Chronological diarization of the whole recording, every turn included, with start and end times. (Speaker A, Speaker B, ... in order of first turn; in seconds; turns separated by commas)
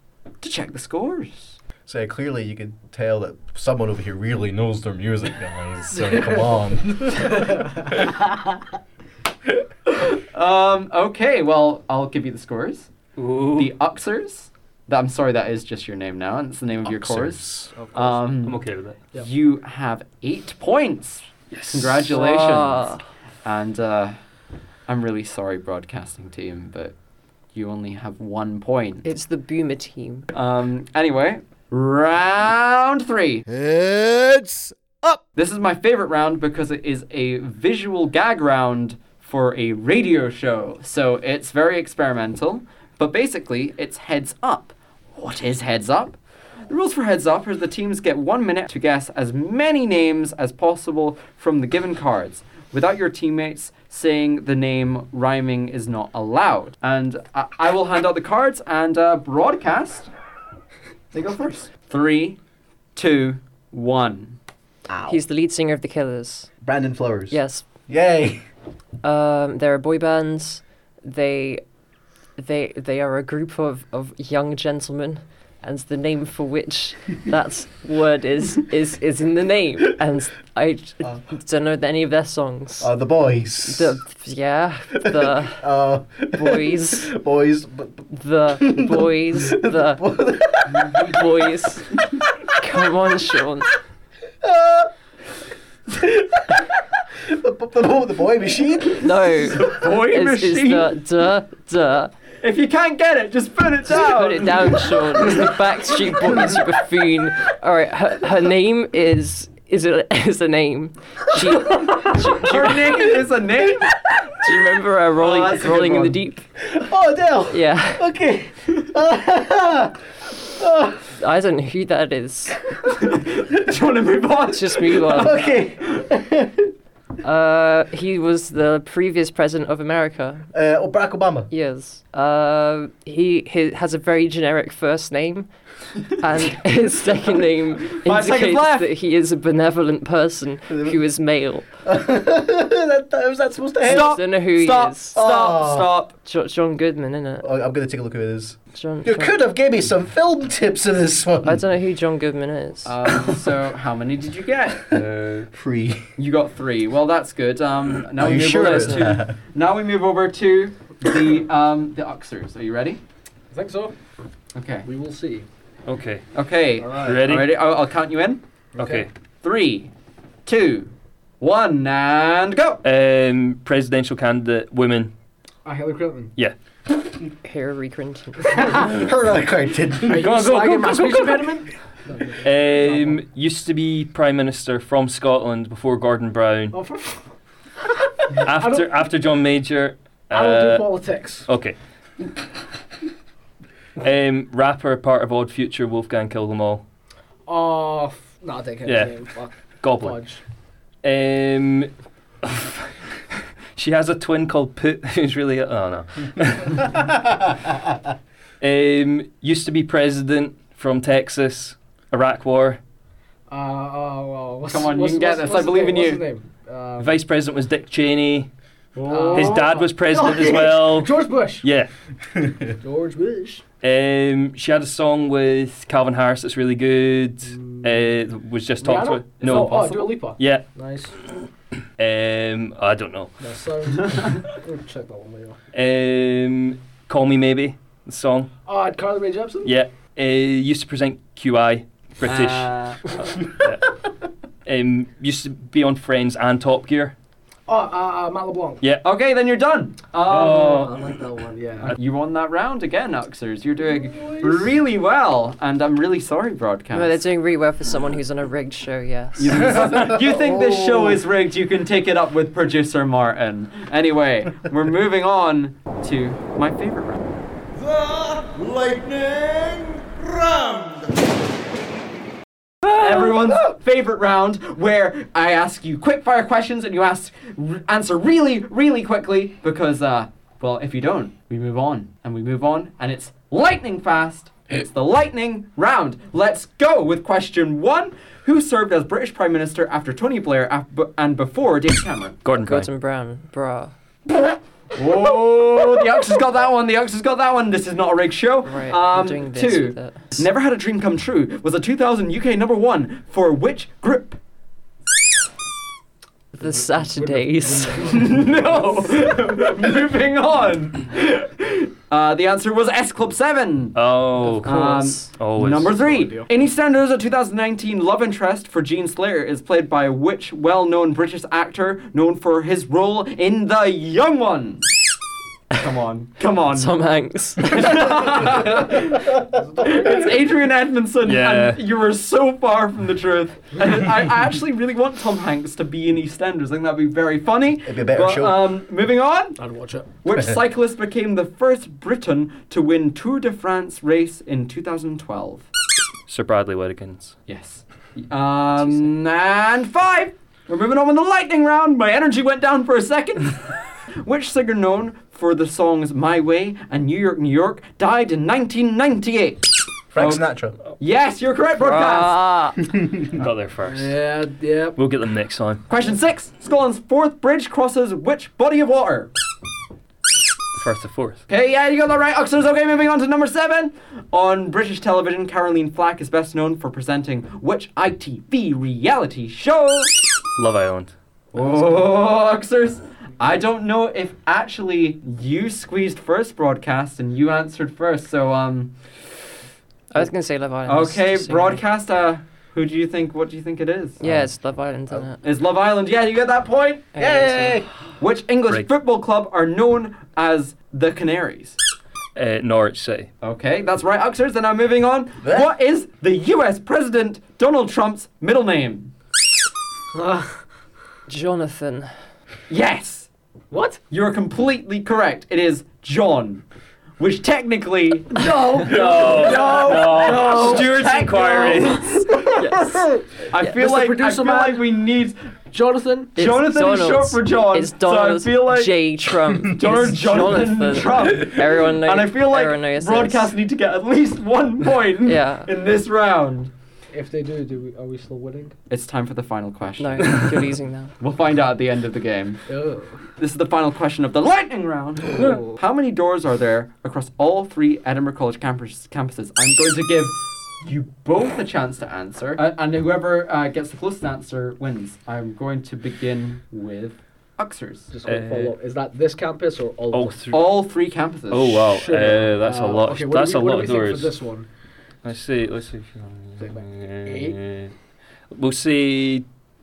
Speaker A: 0.4-1.6, Speaker B: 1.9-8.2, Speaker C: 6.0-6.5, Speaker C: 7.2-8.4, Speaker A: 9.9-12.9, Speaker D: 13.2-13.7, Speaker A: 13.6-18.6, Speaker B: 16.8-17.7, Speaker C: 17.8-18.2, Speaker D: 18.4-19.0, Speaker A: 19.1-22.9, Speaker D: 21.5-22.2, Speaker E: 22.1-23.0, Speaker A: 23.4-24.1, Speaker A: 24.9-26.9, Speaker A: 27.5-29.0, Speaker E: 29.0-30.3, Speaker A: 30.3-33.4, Speaker F: 33.5-35.2, Speaker A: 35.4-46.2, Speaker A: 46.7-60.1, Speaker A: 61.1-62.4, Speaker A: 63.0-64.4, Speaker B: 64.9-65.2, Speaker E: 65.1-66.5, Speaker B: 66.6-68.4, Speaker E: 67.3-67.6, Speaker E: 69.0-71.6, Speaker E: 72.4-82.9, Speaker B: 82.8-84.0, Speaker E: 83.6-85.7, Speaker B: 85.0-91.4, Speaker E: 86.3-87.1, Speaker E: 88.1-90.0, Speaker E: 90.9-91.9, Speaker E: 92.6-93.7, Speaker B: 94.4-94.9, Speaker B: 95.9-99.5, Speaker E: 99.0-102.1, Speaker A: 99.5-100.9, Speaker A: 102.4-105.5, Speaker E: 103.9-113.1, Speaker A: 111.6-114.0, Speaker E: 114.4-116.5, Speaker A: 115.2-116.2, Speaker B: 116.7-120.0, Speaker E: 117.5-118.1, Speaker B: 120.6-121.0, Speaker E: 121.2-122.6, Speaker A: 122.9-125.5, Speaker E: 124.5-125.4, Speaker B: 125.0-126.7, Speaker E: 127.2-130.5, Speaker B: 130.5-131.5, Speaker E: 131.5-135.5, Speaker E: 136.0-141.7, Speaker A: 138.0-138.9, Speaker B: 140.7-141.0, Speaker B: 141.8-144.2, Speaker A: 143.8-146.1, Speaker E: 143.9-145.2, Speaker B: 145.1-145.9, Speaker E: 146.2-147.5, Speaker B: 147.4-151.6, Speaker E: 148.7-149.3, Speaker E: 151.4-152.9, Speaker A: 152.8-154.9, Speaker D: 154.9-155.5, Speaker B: 155.5-156.1, Speaker A: 156.2-163.0, Speaker B: 158.2-159.3, Speaker E: 158.6-158.9, Speaker C: 163.5-163.9, Speaker A: 164.5-164.9, Speaker C: 164.8-165.5, Speaker D: 165.8-166.2, Speaker A: 166.3-168.4, Speaker C: 166.8-167.2, Speaker D: 166.9-167.5, Speaker D: 168.8-169.1, Speaker C: 168.8-169.1, Speaker A: 169.4-169.9, Speaker A: 170.4-172.8, Speaker D: 172.8-175.1, Speaker C: 175.6-176.3, Speaker E: 177.4-178.8, Speaker C: 178.5-178.9, Speaker B: 178.7-180.3, Speaker C: 180.1-183.2, Speaker D: 180.1-181.6, Speaker D: 182.4-186.8, Speaker C: 186.7-187.2, Speaker C: 188.2-189.1, Speaker D: 188.4-191.8, Speaker C: 190.3-191.5, Speaker D: 194.0-196.8, Speaker C: 197.5-200.4, Speaker D: 198.8-199.2, Speaker D: 199.8-200.2, Speaker D: 201.0-201.9, Speaker D: 202.4-202.9, Speaker D: 203.7-207.2, Speaker D: 208.6-212.8, Speaker C: 213.5-217.1, Speaker A: 214.7-216.2, Speaker D: 217.0-218.5, Speaker C: 218.9-221.7, Speaker A: 219.2-219.6, Speaker D: 219.3-221.9, Speaker C: 222.8-223.6, Speaker D: 223.8-230.7, Speaker C: 227.5-228.0, Speaker C: 228.8-231.2, Speaker A: 229.4-230.1, Speaker D: 232.0-233.3, Speaker C: 233.4-235.6, Speaker D: 235.7-238.5, Speaker C: 238.7-239.7, Speaker D: 239.6-243.9, Speaker A: 242.2-243.0, Speaker D: 244.7-247.1, Speaker C: 247.7-248.8, Speaker A: 249.0-250.9, Speaker D: 250.3-251.1, Speaker C: 250.3-251.9, Speaker A: 251.8-257.2, Speaker C: 253.9-254.7, Speaker E: 256.9-260.1, Speaker A: 259.4-267.4, Speaker B: 259.9-261.2, Speaker F: 267.7-271.3, Speaker A: 272.9-292.4, Speaker D: 292.4-292.9, Speaker E: 292.6-293.9, Speaker A: 294.9-304.4, Speaker E: 298.6-300.5, Speaker E: 306.5-308.3, Speaker C: 306.6-309.8, Speaker A: 308.0-314.0, Speaker D: 313.9-316.4, Speaker E: 314.4-315.3, Speaker A: 314.6-324.8, Speaker C: 316.2-316.4, Speaker A: 325.7-326.9, Speaker E: 326.7-328.2, Speaker A: 327.6-339.6, Speaker C: 329.5-330.3, Speaker D: 331.2-331.8, Speaker B: 337.8-338.7, Speaker C: 339.6-340.1, Speaker A: 340.2-345.7, Speaker D: 346.3-347.4, Speaker A: 347.5-360.4, Speaker B: 360.1-360.8, Speaker A: 361.0-362.4, Speaker E: 361.8-362.8, Speaker D: 363.3-364.2, Speaker C: 363.8-365.0, Speaker D: 364.9-365.8, Speaker A: 365.9-369.3, Speaker D: 370.7-371.4, Speaker A: 371.5-380.1, Speaker D: 380.6-381.1, Speaker A: 381.5-389.0, Speaker E: 390.1-391.8, Speaker A: 390.9-394.2, Speaker E: 394.2-395.4, Speaker A: 395.4-397.1, Speaker E: 397.1-397.8, Speaker B: 397.2-397.9, Speaker A: 398.2-401.8, Speaker D: 402.3-403.3, Speaker A: 403.4-409.1, Speaker B: 405.4-405.7, Speaker C: 410.1-410.6, Speaker E: 411.3-412.1, Speaker A: 412.7-413.3, Speaker C: 413.7-414.0, Speaker A: 414.1-416.6, Speaker A: 417.2-425.4, Speaker C: 418.3-424.9, Speaker D: 418.8-422.2, Speaker E: 422.6-423.0, Speaker C: 425.7-426.4, Speaker A: 426.4-429.0, Speaker E: 426.4-433.5, Speaker A: 429.6-436.7, Speaker E: 435.2-435.7, Speaker C: 437.1-438.7, Speaker A: 438.9-440.4, Speaker E: 440.0-441.1, Speaker A: 441.2-442.6, Speaker C: 442.7-443.2, Speaker A: 443.4-458.1, Speaker D: 445.4-445.6, Speaker C: 458.1-460.4, Speaker D: 458.2-458.7, Speaker D: 460.1-460.7, Speaker A: 460.5-461.9, Speaker D: 461.5-464.3, Speaker C: 461.9-464.7, Speaker D: 465.2-467.9, Speaker C: 466.6-467.6, Speaker D: 468.5-469.4